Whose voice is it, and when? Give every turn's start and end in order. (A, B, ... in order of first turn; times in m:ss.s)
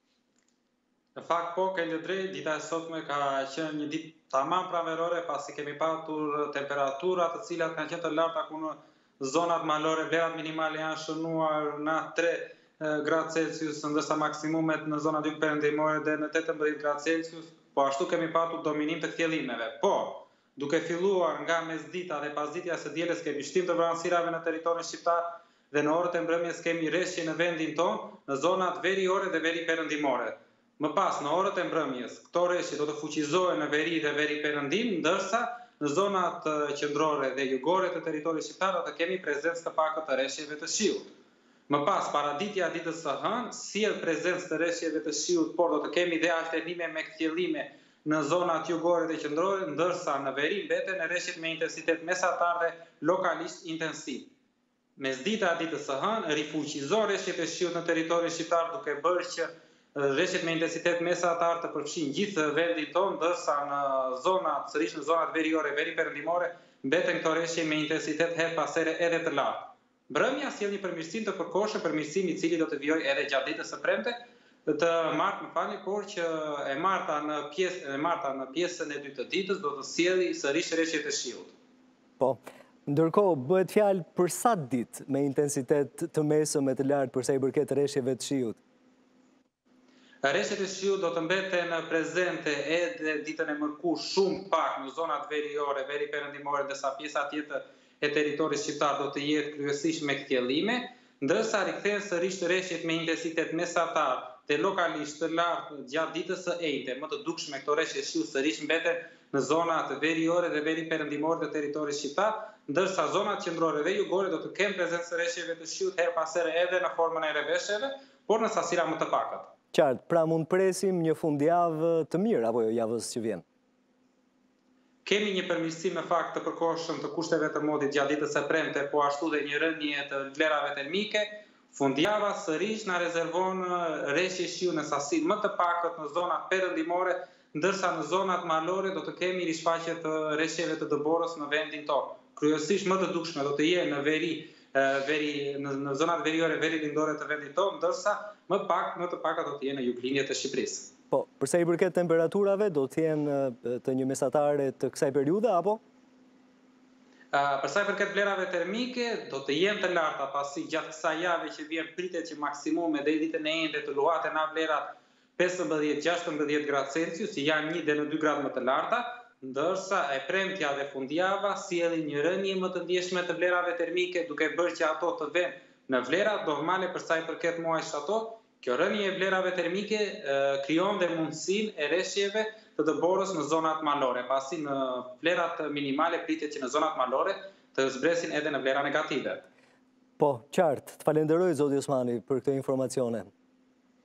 0:01.2-0:41.1 A
0:41.7-0:54.3 A
0:55.0-1:21.5 A
1:22.2-1:28.6 B
1:30.2-1:59.5 A
1:59.7-2:03.4 B
2:05.0-2:30.9 A
2:31.1-2:35.8 B
2:37.3-3:09.4 A
3:10.2-3:13.3 B